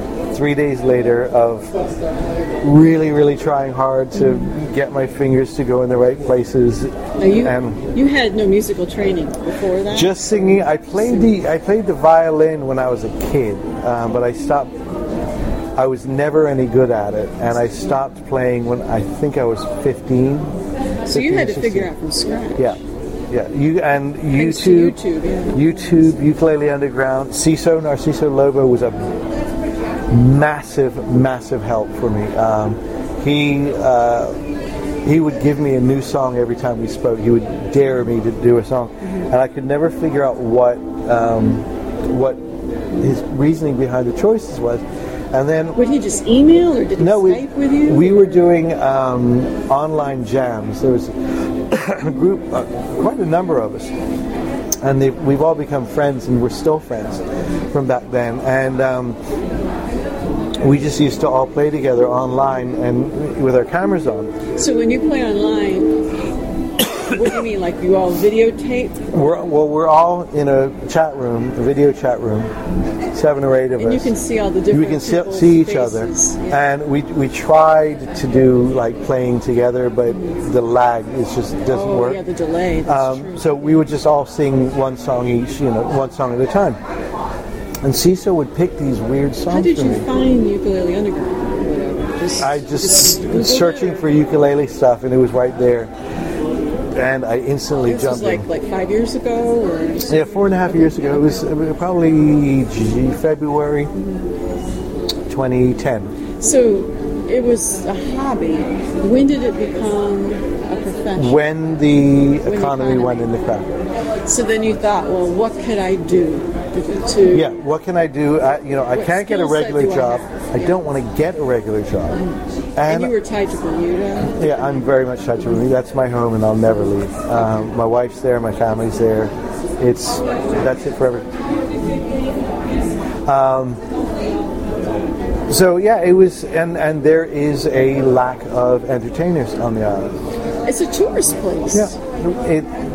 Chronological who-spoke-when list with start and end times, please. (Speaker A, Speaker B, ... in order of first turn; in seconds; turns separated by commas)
Speaker A: 0.3-1.7, Speaker A: 2.6-7.8, Speaker B: 7.2-10.2, Speaker A: 9.9-14.7, Speaker A: 15.8-20.5, Speaker B: 21.0-22.8, Speaker A: 21.1-21.9, Speaker A: 22.6-24.9, Speaker B: 24.3-25.7, Speaker A: 25.5-29.2, Speaker A: 30.1-34.4, Speaker A: 35.0-42.4, Speaker A: 42.9-45.8, Speaker B: 45.7-48.4, Speaker A: 47.0-53.9, Speaker A: 54.8-59.2, Speaker A: 60.6-64.3, Speaker B: 64.5-66.0, Speaker B: 66.9-69.1, Speaker A: 69.1-72.5, Speaker A: 73.1-74.1, Speaker B: 73.8-76.6, Speaker A: 74.7-82.2, Speaker B: 81.7-83.7, Speaker A: 82.8-86.8, Speaker A: 87.8-90.1, Speaker B: 89.5-94.0, Speaker A: 92.4-95.9, Speaker A: 96.9-98.5, Speaker B: 97.8-101.4, Speaker A: 100.1-103.9, Speaker A: 105.3-106.1, Speaker B: 106.4-111.4, Speaker A: 111.2-113.8, Speaker B: 112.4-113.3, Speaker B: 114.2-117.5, Speaker A: 117.3-123.1, Speaker B: 118.9-120.8, Speaker B: 122.8-124.4, Speaker A: 124.4-131.2, Speaker A: 133.2-133.8, Speaker A: 135.5-140.2, Speaker B: 140.6-142.0, Speaker A: 141.7-142.7